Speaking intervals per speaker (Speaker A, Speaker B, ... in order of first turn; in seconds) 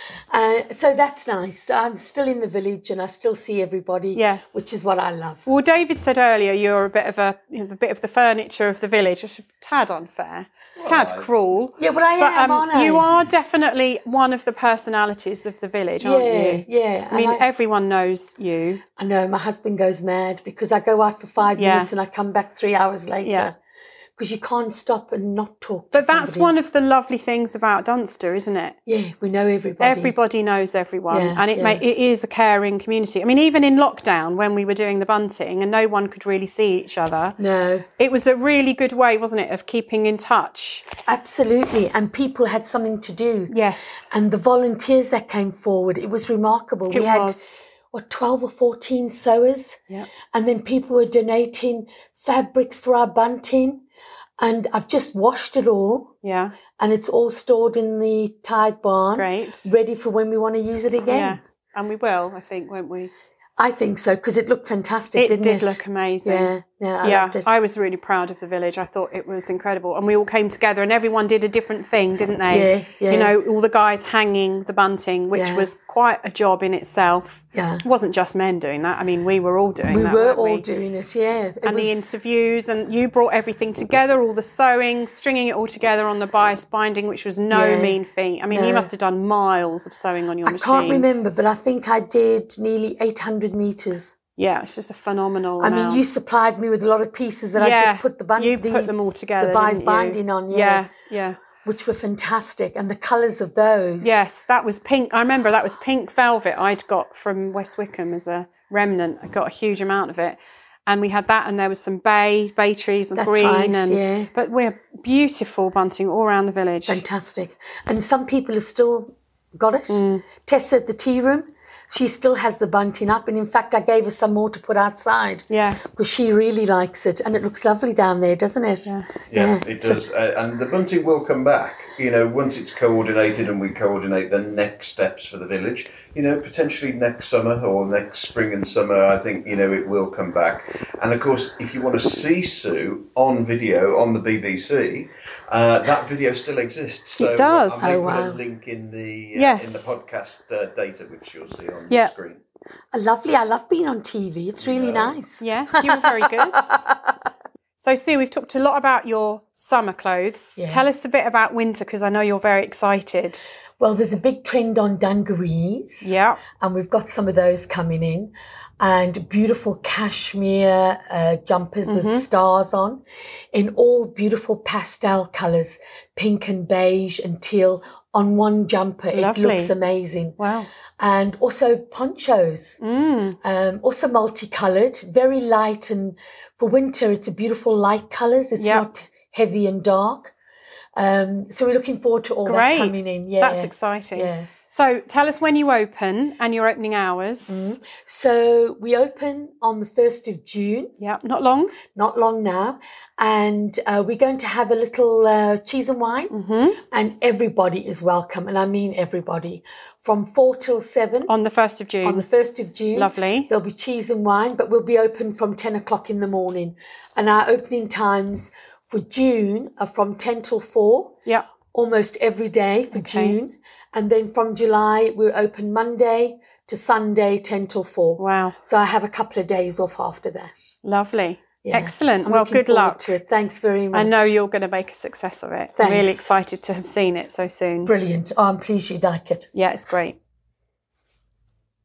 Speaker A: 0.3-5.5, 11.8-13.1, 16.0-17.4, 19.0-23.5, 24.2-26.5, 28.9-30.1, 31.1-31.8, 37.4-37.8, 41.1-43.5, 44.1-47.4, 47.9-49.8, 50.3-53.8, 54.4-56.1, 56.8-61.4, 63.6-67.5, 72.5-73.3, 75.3-75.7, 77.5-77.8, 79.9-82.2, 87.5-88.0, 88.5-88.9, 90.4-94.1, 95.6-100.9, 101.6-104.3, 113.1-114.3, 116.9-130.0, 147.8-148.4, 152.9-157.0, 160.6-160.9, 163.8-173.0, 173.5-180.4, 181.0-182.8, 183.4-190.3, 190.9-194.5, 197.5-200.9, 201.8-206.3, 206.8-211.3, 212.0-221.2, 221.7-230.7, 231.6-234.3, 235.8-236.3, 237.8-239.5
Speaker B: 4.1-4.7, 5.5-18.8, 21.4-21.9, 23.2-23.5, 25.9-28.8, 29.8-37.4, 38.0-40.9, 43.5-44.1, 46.9-47.6, 56.2-56.6, 59.1-59.7, 61.1-63.1, 65.1-80.7, 81.6-91.1, 94.3-96.0, 97.5-101.5, 104.0-117.0, 119.9-120.4, 125.5-125.8, 128.8-129.2, 147.2-147.9, 149.3-149.9, 155.4-156.8, 157.8-163.6, 166.0-166.5, 171.8-172.3, 179.1-179.7, 180.4-180.7, 182.8-183.4, 188.6-188.8, 192.4-197.8, 201.0-201.8, 206.3-206.8, 211.3-212.2, 212.9-213.5, 222.9-223.4, 228.2-228.6, 230.8-233.2, 233.9-237.9, 239.5-240.2
Speaker C: 10.8-11.3, 129.3-152.4, 154.6-155.2